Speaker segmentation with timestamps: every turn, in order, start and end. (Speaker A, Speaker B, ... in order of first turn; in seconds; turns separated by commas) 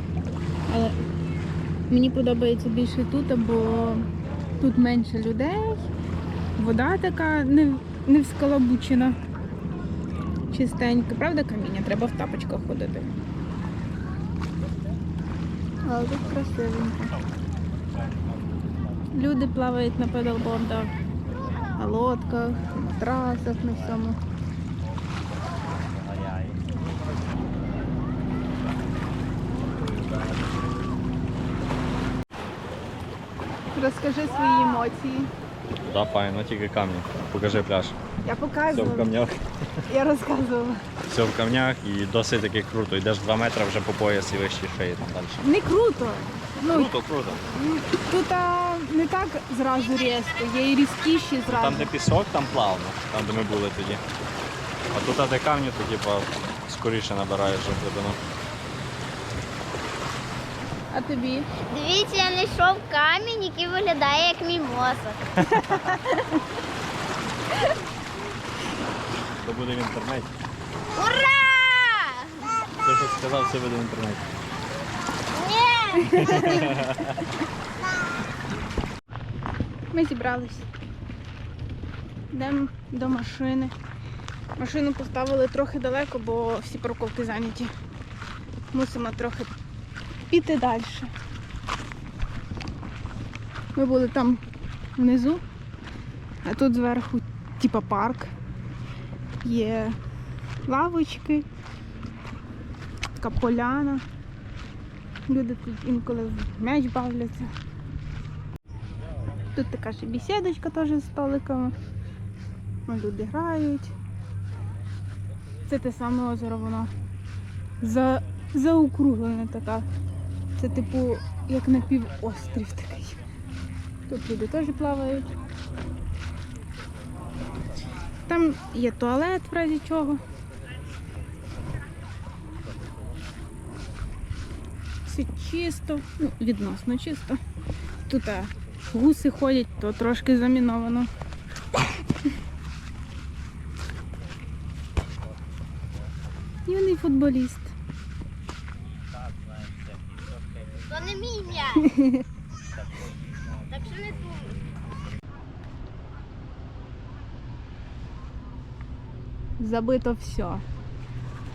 Speaker A: 0.7-1.0, Speaker A: 1.9-5.9, Speaker A: 6.6-9.2, Speaker A: 10.5-13.1, Speaker A: 15.8-17.1, Speaker B: 17.0-18.8, Speaker A: 19.1-20.9, Speaker A: 21.8-24.2, Speaker B: 25.8-26.6, Speaker B: 29.7-30.6, Speaker A: 33.8-35.3, Speaker B: 35.8-38.0, Speaker A: 38.2-39.1, Speaker B: 38.7-39.5, Speaker A: 39.9-40.8, Speaker B: 41.1-45.5, Speaker A: 45.4-47.0, Speaker B: 46.7-47.5, Speaker A: 47.5-51.9, Speaker B: 51.5-54.0, Speaker B: 54.9-58.2, Speaker A: 60.9-61.5, Speaker C: 61.7-65.2, Speaker B: 65.5-66.0, Speaker A: 65.6-66.3, Speaker B: 69.4-70.3, Speaker C: 70.9-72.3, Speaker B: 72.8-74.3, Speaker C: 75.3-76.2, Speaker A: 76.0-76.8, Speaker B: 76.1-77.2, Speaker A: 79.9-80.7, Speaker A: 82.3-83.7, Speaker A: 84.6-87.7, Speaker A: 88.7-89.5, Speaker A: 90.3-91.1, Speaker A: 93.8-94.4, Speaker A: 95.0-95.4, Speaker A: 96.4-98.3, Speaker A: 99.4-100.0, Speaker A: 100.7-101.5, Speaker A: 103.2-104.0, Speaker A: 105.3-107.5, Speaker A: 109.5-111.8, Speaker A: 112.9-113.9, Speaker A: 115.7-116.9, Speaker A: 117.8-119.9, Speaker A: 120.6-123.2, Speaker A: 124.1-125.3, Speaker A: 128.3-130.2, Speaker A: 135.1-137.4, Speaker A: 138.1-141.1, Speaker A: 146.7-147.8, Speaker C: 150.9-151.9, Speaker A: 151.8-152.2, Speaker C: 153.7-154.6, Speaker A: 159.6-160.6